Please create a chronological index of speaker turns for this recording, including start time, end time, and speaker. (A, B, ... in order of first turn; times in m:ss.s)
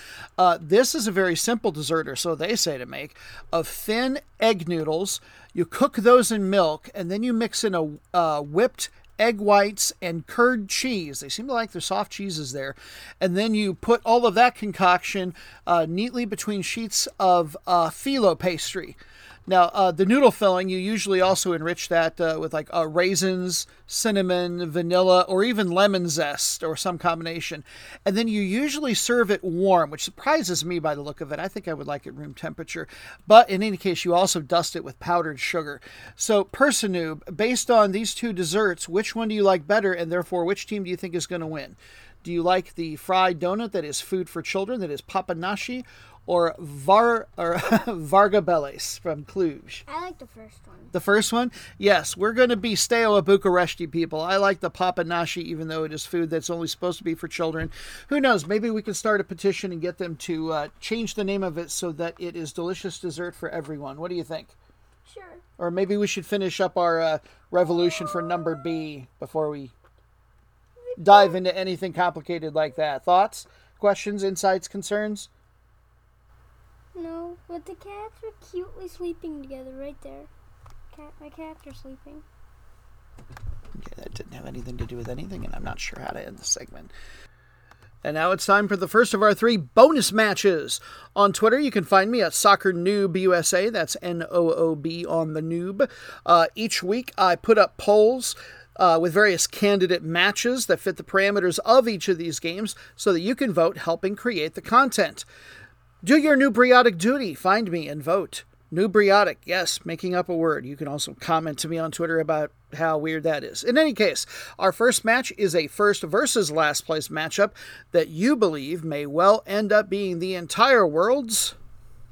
0:00.4-0:49.8 A
0:49.9-0:50.9 B
0:50.9-1:04.5 A
1:05.1-1:05.4 B
1:05.6-1:09.7 A
1:10.8-1:11.4 B
1:11.0-1:15.3 A
1:17.0-1:20.3 B
1:20.9-1:22.2 B
1:23.8-1:26.9 A
1:28.0-1:45.3 A
1:46.0-2:01.6 A